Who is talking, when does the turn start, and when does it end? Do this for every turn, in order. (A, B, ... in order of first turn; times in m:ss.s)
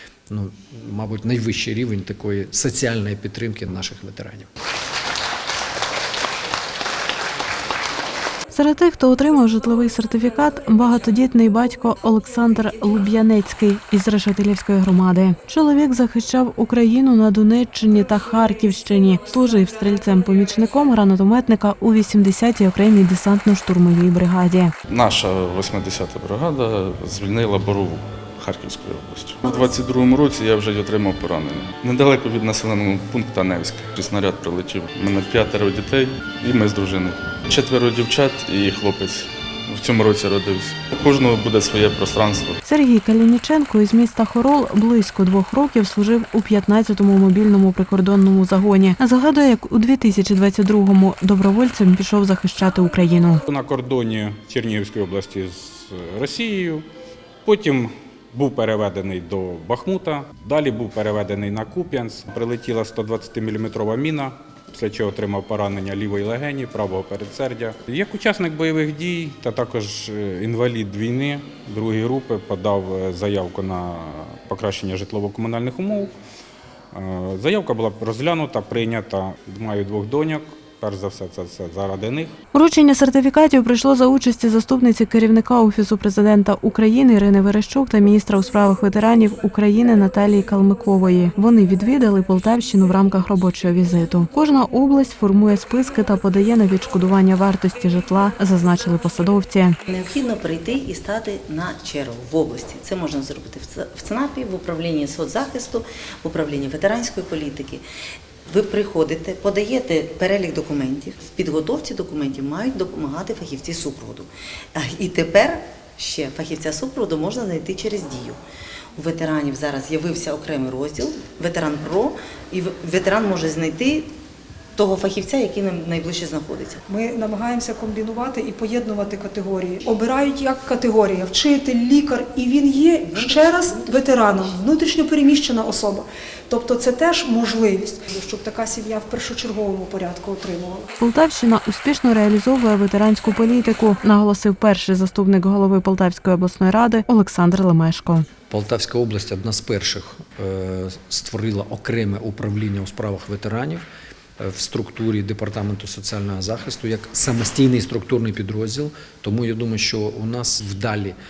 0:00.3-0:04.5 A
0:08.5-0:24.7 B
0:24.9-0:42.6 C
0:42.6-0:53.4 B
0:53.4-0:56.8 D
0:57.4-1:16.1 D
1:16.9-1:22.4 D
1:22.5-1:39.8 B
1:39.9-1:47.8 E
1:48.5-1:58.4 E
1:59.0-2:04.1 E
2:04.8-2:06.8 E
2:06.9-2:20.9 F
2:13.0-2:14.6 E
2:21.0-2:28.3 B
2:28.5-2:33.8 A
2:34.4-2:41.2 A